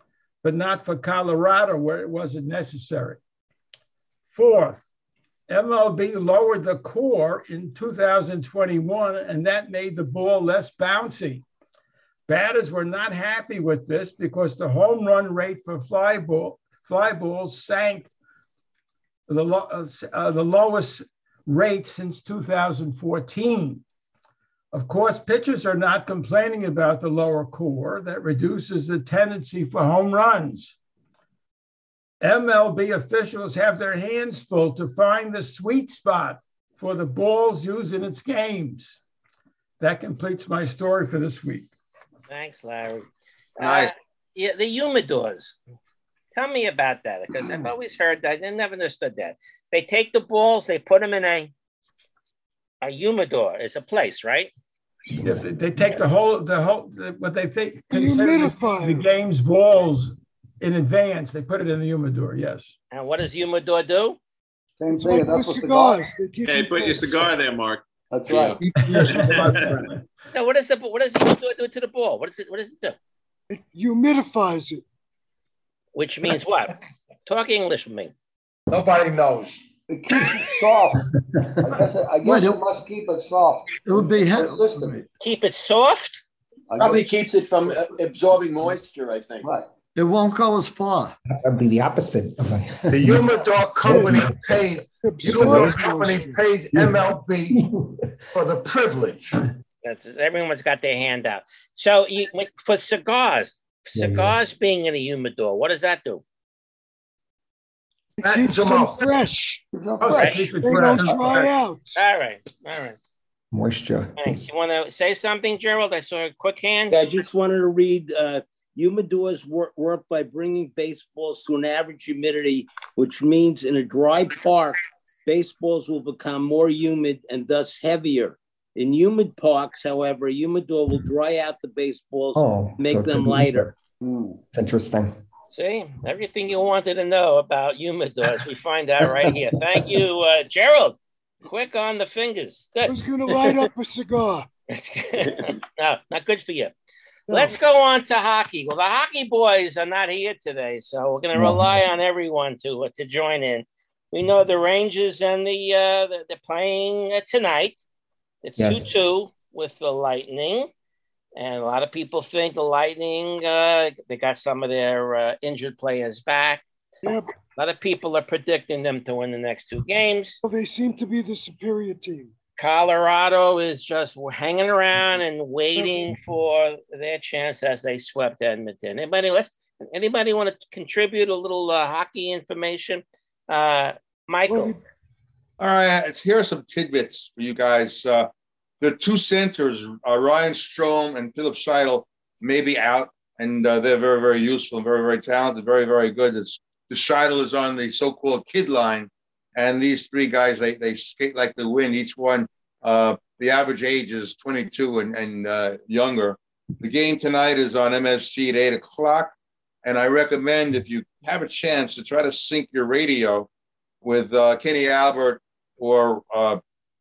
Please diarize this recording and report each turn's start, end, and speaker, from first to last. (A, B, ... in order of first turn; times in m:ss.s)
0:00.4-0:03.2 A
0:04.3-0:04.8 A
0:05.5-0:11.4 A
0:12.3-0:18.1 A
0:19.3-0:23.8 A
0:24.7-0:30.7 A
0:32.2-0:39.0 A
0:39.8-0:41.7 A
0:42.3-0:43.1 B
0:43.6-0:45.6 B
0:43.6-0:43.9 C
0:46.3-0:51.5 B
0:52.8-0:54.5 B
0:55.1-0:55.4 D
0:55.2-1:02.7 A
0:57.9-0:59.1 E
1:02.9-1:04.2 B
1:04.8-1:06.1 F
1:04.9-1:07.3 E
1:06.4-1:09.9 G
1:08.1-1:08.6 F
1:08.6-1:09.8 C
1:08.8-1:09.5 A
1:10.3-1:13.0 B
1:13.5-1:14.8 E
1:15.9-1:18.1 B
1:18.7-1:19.6 H
1:19.9-1:21.1 F
1:21.6-1:25.0 F
1:22.2-1:22.6 I
1:23.8-1:25.0 I
1:25.2-1:26.2 B
1:26.7-1:27.1 F
1:26.8-1:29.5 J
1:29.4-1:29.7 F
1:29.9-1:31.2 I
1:31.4-1:33.3 D
1:32.9-1:37.7 H
1:33.8-1:34.3 D
1:33.9-1:34.2 E
1:35.0-1:36.4 E
1:35.3-1:35.7 D
1:36.7-1:37.0 D
1:37.5-1:38.0 D
1:38.3-1:39.4 H
1:39.8-1:46.2 B
1:43.9-1:44.4 D
1:48.2-1:49.6 E
1:48.2-1:49.2 H
1:49.7-1:50.5 F
1:50.0-1:51.4 A
1:50.1-1:50.4 B
1:50.4-1:52.0 E
1:52.0-1:53.0 B
1:53.5-1:54.1 D
1:54.2-1:57.2 B
1:56.9-2:13.7 K
2:12.3-2:13.7 D
2:14.0-2:14.4 F
2:14.5-2:15.1 D
2:15.5-2:23.5 B
2:22.8-2:24.5 E
2:24.7-2:26.7 B
2:27.3-2:27.5 E
2:27.3-2:37.8 B
2:31.3-2:31.8 D
2:38.4-2:40.7 B
2:38.6-2:39.0 D
2:41.4-2:46.6 B
2:47.0-2:47.3 E
2:47.6-2:50.4 B
2:50.4-2:52.3 E
2:52.6-3:04.8 B
2:55.8-2:56.1 E
3:04.5-3:04.8 E
3:05.6-3:08.3 C
3:08.8-3:33.5 C
3:34.0-3:36.6 C